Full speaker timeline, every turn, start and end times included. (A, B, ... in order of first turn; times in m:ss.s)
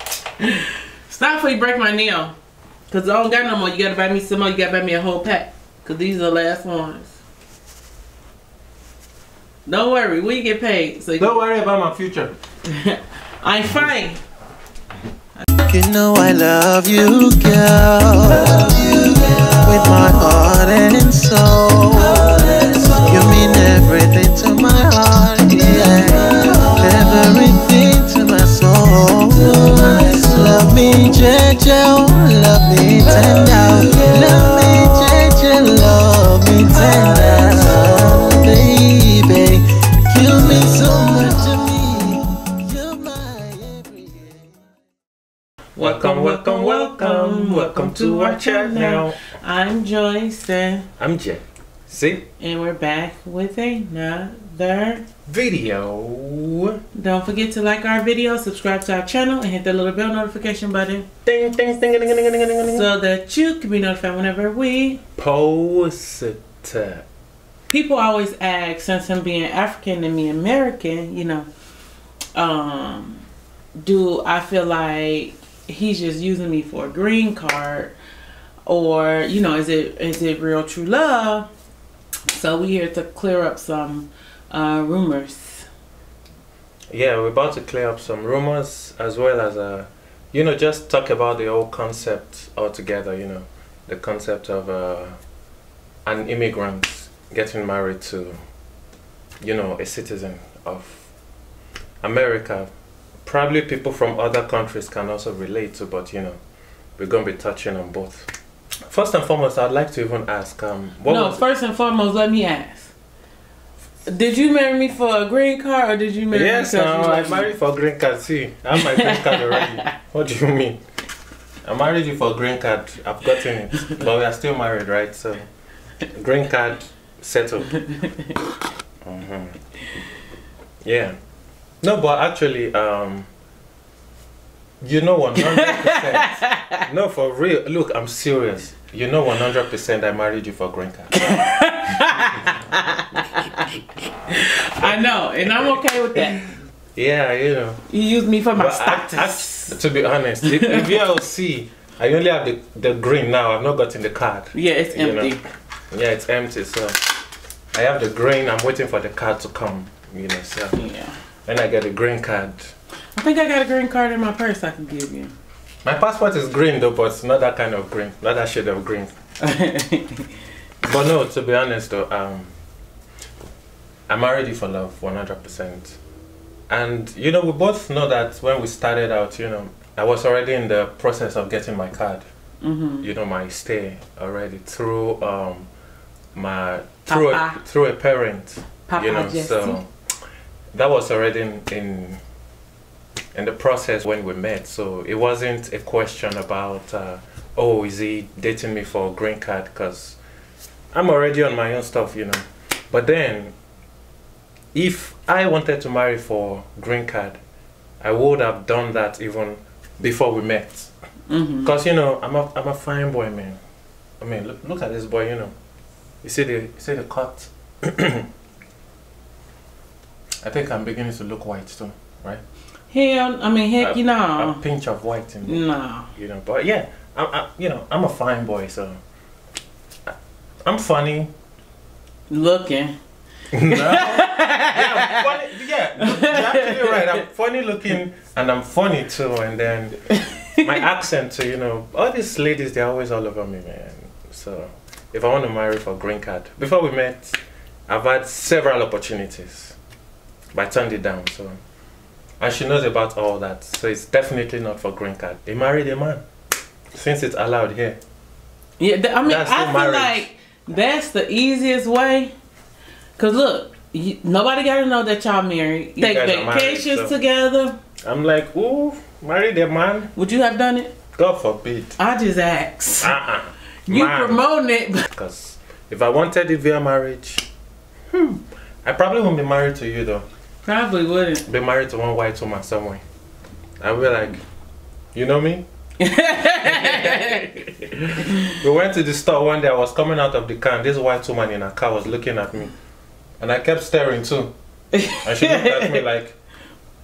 0:00.4-0:02.4 A
0:02.9-0:07.2 A
0:09.7-0:11.4 A
0:11.2-0:12.3 B
0:12.7-0:14.2 A
0:15.7-0:44.4 C
0:15.7-0:22.4 B
0:23.0-0:31.5 B
0:32.8-0:35.6 B
0:36.4-0:38.0 B
0:40.3-0:41.8 B
0:45.8-0:50.9 A
0:45.8-0:49.2 B
0:51.0-0:52.3 B
0:52.4-0:55.1 A
0:55.3-0:56.8 B
0:56.9-1:01.1 A
1:01.2-1:02.9 B
1:02.7-1:05.0 A
1:05.2-1:07.0 B
1:07.7-1:11.5 A
1:12.4-1:13.2 A
1:13.8-1:18.0 A
1:18.7-1:21.5 A
1:22.3-1:25.7 A
1:26.9-1:35.2 B
1:36.1-1:38.4 B
1:39.4-1:41.1 B
1:42.0-1:42.7 B
1:43.2-1:46.4 B
1:47.0-1:48.3 B
1:48.9-1:51.4 B
1:51.1-1:52.9 A
1:54.1-1:57.5 A
1:56.3-2:00.8 B
1:58.8-1:59.9 A
2:01.6-2:05.5 B
2:06.1-2:07.8 B
2:07.8-2:08.3 A
2:09.0-2:09.6 B
2:10.8-2:11.2 B
2:11.8-2:13.3 B
2:14.8-2:22.4 B
2:15.4-2:16.8 A
2:21.2-2:23.7 A
2:24.3-2:26.5 A
2:25.4-2:26.4 B
2:27.0-2:27.8 B
2:27.9-2:29.8 A
2:28.5-2:35.4 B
2:30.5-2:30.8 A
2:34.5-2:35.4 A
2:35.9-2:37.1 B
2:37.7-2:40.8 B
2:40.7-2:41.2 A
2:41.5-2:42.7 B
2:43.2-2:45.3 A
2:45.8-2:49.2 B
2:49.4-2:50.3 A
2:50.8-2:52.5 B
2:54.1-2:56.0 B
2:56.7-3:02.2 B
3:02.6-3:03.1 A
3:03.0-3:05.7 B
3:06.4-3:09.9 B
3:07.1-3:07.6 A
3:08.9-3:09.8 A
3:10.7-3:12.2 B
3:13.3-3:20.2 B
3:20.9-3:23.5 B
3:24.7-3:27.4 B
3:28.0-3:30.9 B
3:31.3-3:31.7 A
3:31.6-3:33.6 B
3:34.2-3:35.5 B
3:36.2-3:38.3 B
3:40.4-3:42.4 B
3:42.9-3:44.6 A
3:43.8-3:45.6 B
3:45.4-3:46.1 A
3:46.2-3:49.0 B
3:50.6-3:51.3 B
3:52.3-3:53.0 A
3:53.5-4:00.0 B
3:53.7-3:55.3 A
3:56.0-3:57.2 A
4:00.1-4:00.7 A
4:00.6-4:09.8 B
4:10.5-4:11.6 B
4:12.4-4:16.2 B
4:16.9-4:18.0 B
4:18.8-4:22.3 A
4:19.2-4:20.2 B
4:23.2-4:27.8 A
4:26.0-4:27.1 B
4:28.0-4:30.1 B
4:30.2-4:30.9 A
4:31.2-4:32.0 B
4:32.0-4:33.1 A
4:33.0-4:34.4 B
4:33.9-4:35.1 A
4:35.1-4:37.5 B
4:38.1-4:40.3 B
4:40.6-4:41.5 A
4:41.5-4:43.0 B
4:43.8-4:44.4 B
4:45.1-4:45.6 B
4:46.0-4:47.6 A
4:46.6-4:52.7 B
4:53.4-4:54.5 B
4:54.9-4:56.0 A
4:55.2-4:56.4 B